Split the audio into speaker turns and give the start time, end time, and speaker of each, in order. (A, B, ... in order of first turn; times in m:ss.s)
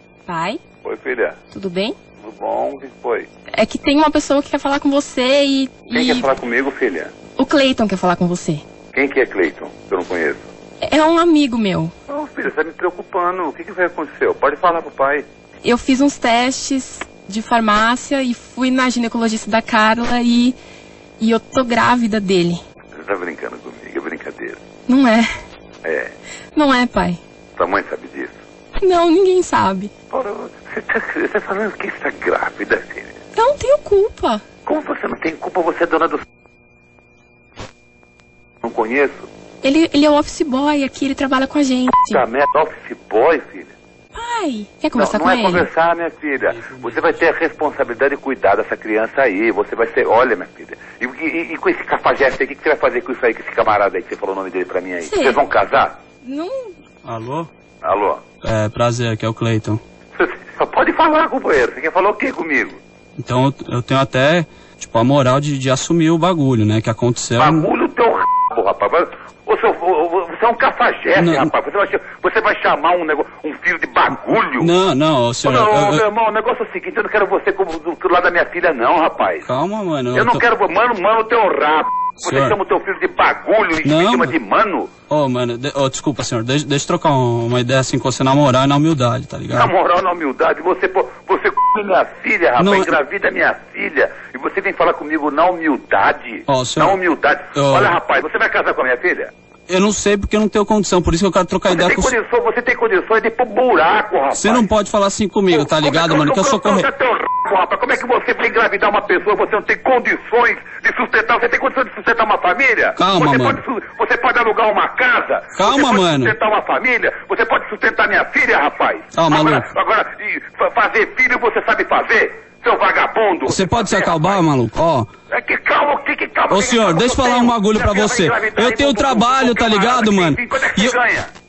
0:00.3-0:00.6 A
0:00.8-0:01.4 B
0:01.5-0:02.0 A
0:02.2-0:03.3 B
0:03.6-0:06.3 A
0:05.9-0:07.1 B
0:07.4-0:08.6 A
0:08.9-0:10.5 B
0:10.8-0:11.9 A
0:12.1-0:15.3 B
0:15.6-0:20.6 A
0:21.2-0:22.6 A
0:22.9-0:24.6 B
0:24.9-0:25.3 A
0:25.8-0:26.1 B
0:26.6-0:27.2 A
0:27.6-0:28.4 B
0:28.8-0:29.9 A
0:30.1-0:33.1 B
0:33.4-0:34.4 A
0:34.6-0:36.2 B
0:38.6-0:39.3 B
0:39.6-0:42.2 A
0:42.1-0:43.7 B
0:44.2-0:45.7 A
0:44.9-0:56.0 B
0:46.6-0:47.2 C
0:55.0-0:55.4 A
0:56.2-0:56.7 A
0:57.0-0:57.5 C
0:57.8-0:58.2 B
0:58.4-0:59.8 C
1:00.2-1:02.8 B
1:03.2-1:07.7 C
1:07.4-1:14.7 B
1:11.2-1:11.5 C
1:14.6-1:16.0 C
1:15.4-1:19.5 B
1:19.4-1:20.4 C
1:20.1-1:24.9 B
1:22.2-1:22.6 C
1:23.8-1:24.4 C
1:25.1-1:29.7 C
1:29.5-1:39.3 B
1:32.6-1:32.9 C
1:36.5-1:37.0 C
1:37.6-1:38.0 C
1:39.7-1:42.1 C
1:41.7-1:44.7 B
1:44.3-1:46.9 C
1:45.5-2:04.4 B
1:53.0-1:53.6 C
1:55.6-1:56.3 C
1:59.1-1:59.7 C
2:03.5-2:05.1 C
2:05.3-2:11.3 B
2:06.5-2:11.0 C